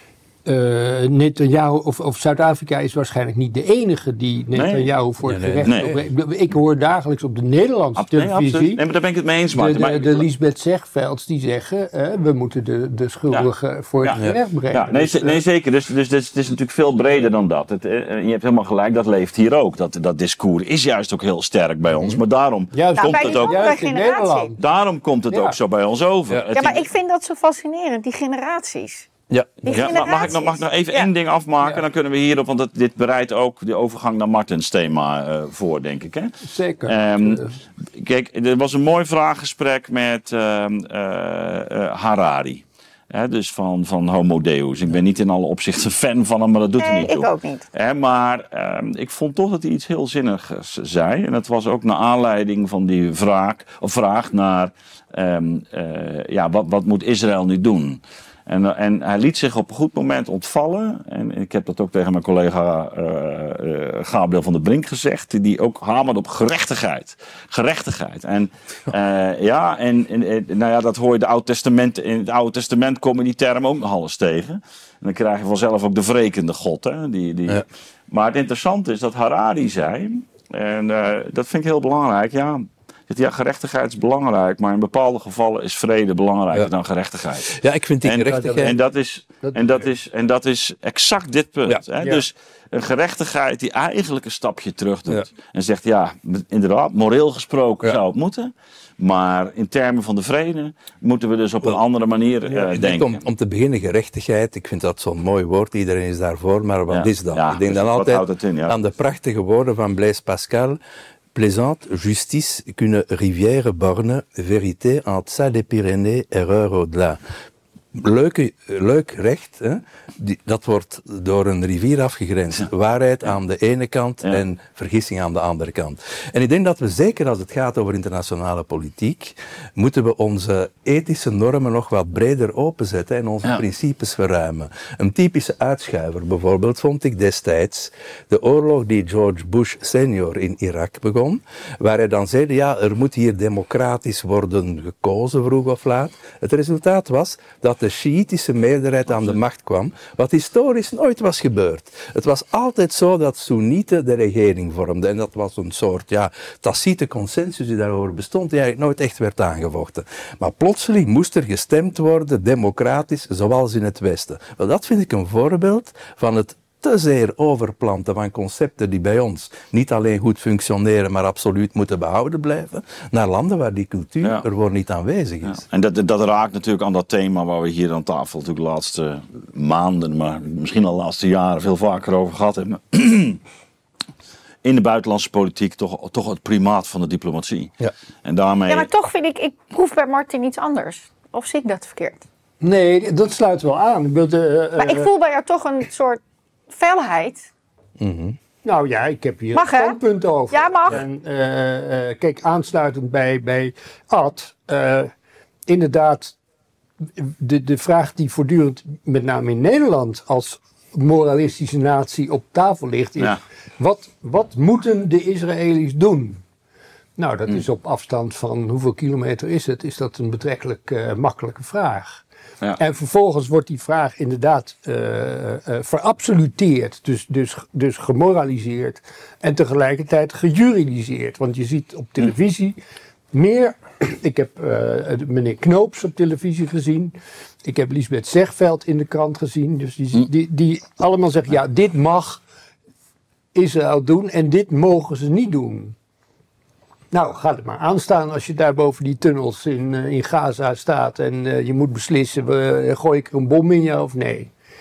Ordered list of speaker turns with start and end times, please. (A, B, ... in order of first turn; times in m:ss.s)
0:00.4-0:08.8 A
0:04.5-0:04.9 B
0:05.2-0:06.0 C
0:05.6-0:05.9 B
0:08.0-0:10.2 B
0:09.5-0:15.4 A
0:14.0-0:23.8 B
0:22.7-0:24.6 A
0:23.0-0:24.5 D
0:24.6-0:26.9 B
0:25.3-0:25.6 A
0:26.5-0:29.1 D
0:29.3-0:29.8 C
0:29.6-0:31.1 D
0:29.7-0:36.3 B
0:36.4-0:37.5 A
0:36.8-1:43.2 B
0:46.8-0:47.6 D
1:27.5-1:28.7 C
1:28.3-1:28.7 A
1:42.5-1:50.8 C
1:46.9-1:48.8 B
1:51.3-1:57.2 C
1:57.9-2:55.6 C
2:55.5-3:03.4 B
3:04.6-3:07.7 B
3:08.2-3:08.9 B
3:08.7-3:12.2 D
3:12.6-3:15.1 A
3:14.8-3:17.5 D
3:18.0-3:18.4 C
3:18.6-3:25.1 A
3:19.5-3:20.0 D
3:20.5-3:21.0 D
3:25.7-3:26.4 A
3:27.2-3:36.4 A
3:37.2-3:42.2 A
3:42.8-3:52.8 A
3:53.3-4:02.4 A
4:03.5-4:06.0 A
4:07.1-4:14.5 A